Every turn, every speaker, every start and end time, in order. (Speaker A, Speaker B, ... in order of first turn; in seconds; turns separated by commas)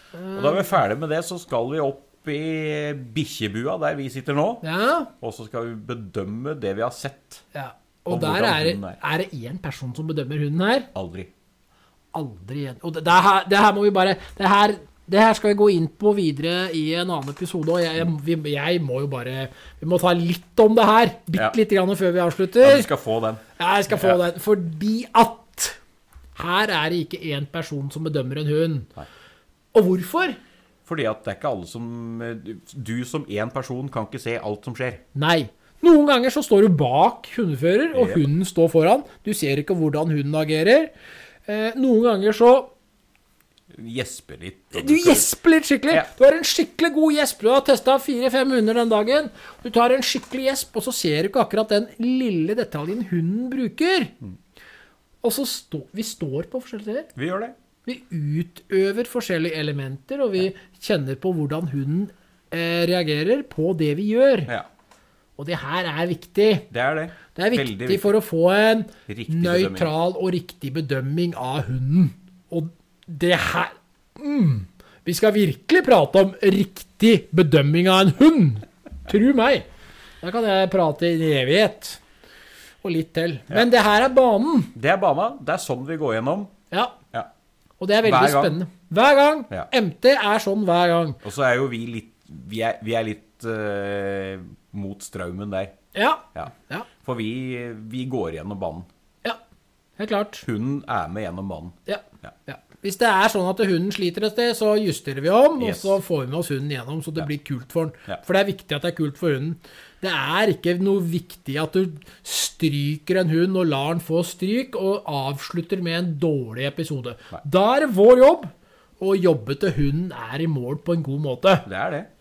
Speaker A: 0.1-0.8, Speaker B: 0.3-4.6, Speaker A: 4.6-5.1, Speaker B: 5.2-7.5, Speaker A: 7.5-10.9, Speaker B: 8.1-9.0, Speaker B: 10.9-11.3, Speaker A: 12.1-22.9, Speaker B: 22.6-24.2, Speaker A: 23.6-25.8, Speaker A: 26.4-28.9, Speaker A: 29.7-30.4, Speaker B: 30.9-35.0, Speaker A: 35.1-40.9, Speaker B: 37.9-38.2, Speaker A: 41.5-42.7, Speaker B: 43.7-45.3, Speaker A: 44.7-54.1, Speaker A: 55.2-57.1, Speaker B: 57.1-57.5, Speaker A: 57.9-64.5, Speaker A: 65.4-66.7, Speaker B: 66.7-68.1, Speaker A: 67.3-79.7, Speaker B: 69.1-69.9, Speaker A: 80.2-82.0, Speaker A: 82.8-84.7, Speaker B: 84.8-86.5, Speaker A: 86.7-87.0, Speaker A: 87.8-91.2, Speaker B: 88.0-88.6, Speaker B: 91.2-95.8, Speaker A: 95.9-96.9, Speaker B: 97.0-98.9, Speaker A: 100.0-100.5, Speaker B: 100.4-102.3, Speaker A: 101.9-121.7, Speaker B: 105.6-106.0, Speaker B: 121.7-122.1